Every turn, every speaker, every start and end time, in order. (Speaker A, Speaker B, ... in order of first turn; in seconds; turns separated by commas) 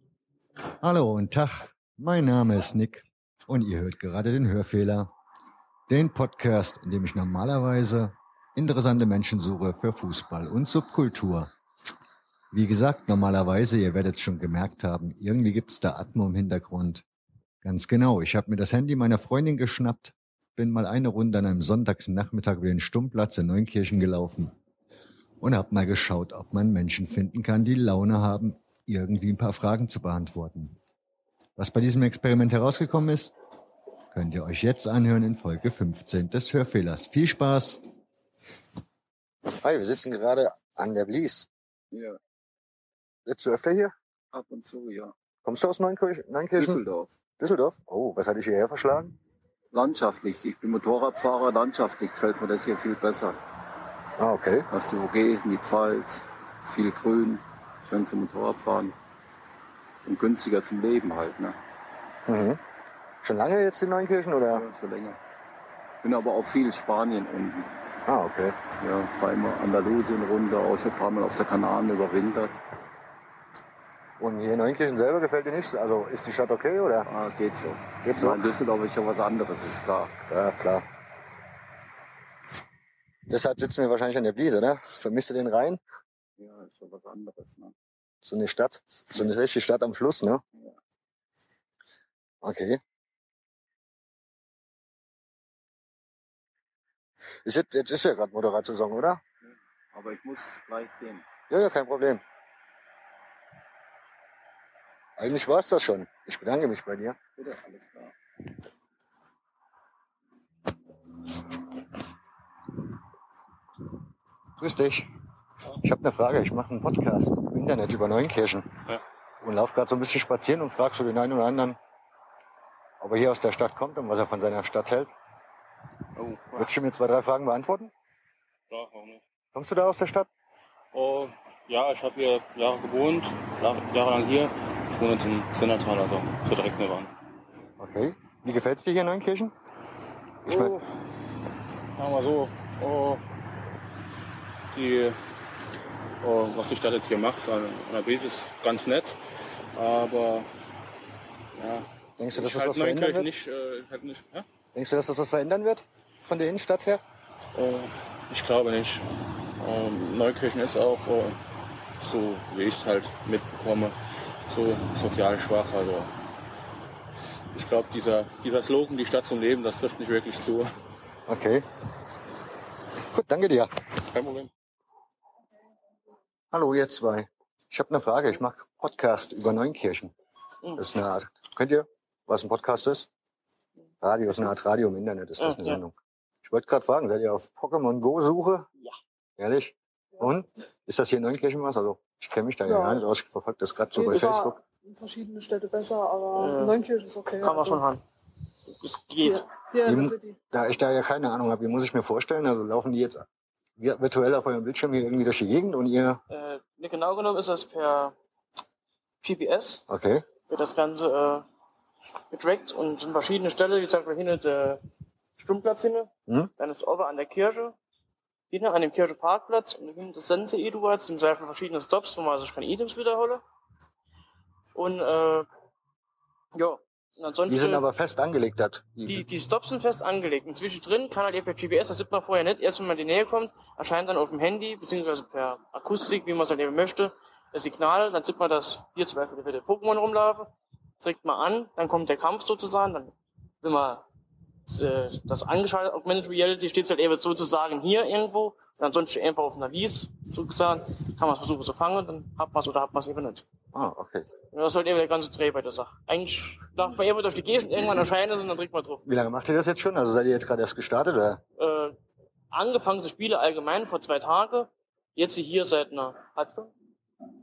Speaker A: 0.8-5.1, Speaker A: 5.9-11.5, Speaker A: 12.5-17.0, Speaker A: 17.6-24.5, Speaker A: 25.4-30.8, Speaker A: 31.6-33.3, Speaker A: 34.1-37.8, Speaker A: 39.6-41.5, Speaker B: 41.9-42.2, Speaker A: 43.2-43.9, Speaker B: 44.3-45.1, Speaker A: 45.4-46.8, Speaker B: 46.5-47.1, Speaker A: 47.4-49.2, Speaker B: 49.7-53.4, Speaker A: 54.2-54.7, Speaker B: 54.7-58.9, Speaker B: 60.0-61.6, Speaker A: 62.3-62.6, Speaker A: 63.2-64.6, Speaker B: 64.5-65.2, Speaker B: 66.0-67.8, Speaker A: 68.0-68.6, Speaker B: 68.8-72.5, Speaker A: 74.2-77.1, Speaker B: 77.0-80.1, Speaker A: 78.0-78.5, Speaker A: 80.2-80.8, Speaker A: 83.3-85.8, Speaker B: 86.4-87.7, Speaker A: 88.2-90.4, Speaker A: 92.4-92.8, Speaker A: 97.4-99.2, Speaker B: 99.9-101.2, Speaker A: 101.5-102.2, Speaker A: 105.2-107.2, Speaker B: 107.4-108.1, Speaker A: 114.6-115.1, Speaker A: 115.8-118.7, Speaker A: 119.4-121.8, Speaker A: 123.0-125.1, Speaker C: 126.2-126.7, Speaker A: 126.5-127.9, Speaker C: 128.7-129.2, Speaker A: 129.5-130.3, Speaker C: 130.9-137.1, Speaker A: 137.8-139.5, Speaker A: 140.4-140.8, Speaker C: 140.4-140.8, Speaker C: 142.0-143.2, Speaker C: 144.7-145.2, Speaker C: 146.2-149.2, Speaker C: 149.7-150.5, Speaker C: 151.5-154.4, Speaker A: 152.2-153.3, Speaker A: 154.7-157.0, Speaker C: 157.5-159.1, Speaker C: 159.6-161.4, Speaker C: 162.0-163.9, Speaker C: 164.5-166.1, Speaker C: 167.5-170.7, Speaker A: 171.3-171.7, Speaker A: 173.1-173.7, Speaker C: 174.1-174.5, Speaker A: 176.5-180.1, Speaker A: 180.8-183.1, Speaker A: 184.0-188.7, Speaker D: 185.4-185.8, Speaker A: 189.4-194.6, Speaker E: 192.6-193.0, Speaker E: 193.9-197.8, Speaker D: 196.4-196.8, Speaker D: 197.4-198.0, Speaker D: 198.8-199.5, Speaker E: 199.2-200.4, Speaker A: 199.8-203.2, Speaker A: 203.8-206.2, Speaker D: 206.3-208.1, Speaker D: 209.2-209.8, Speaker A: 209.9-210.2, Speaker D: 210.5-211.4, Speaker D: 212.3-214.8, Speaker D: 215.4-217.7, Speaker D: 218.5-223.4, Speaker D: 224.7-225.5, Speaker D: 226.5-227.8, Speaker A: 227.5-229.2, Speaker D: 229.1-244.0, Speaker D: 244.7-253.4, Speaker A: 253.7-254.3, Speaker D: 254.5-259.0, Speaker A: 259.1-261.4, Speaker D: 261.6-261.9, Speaker D: 262.5-266.7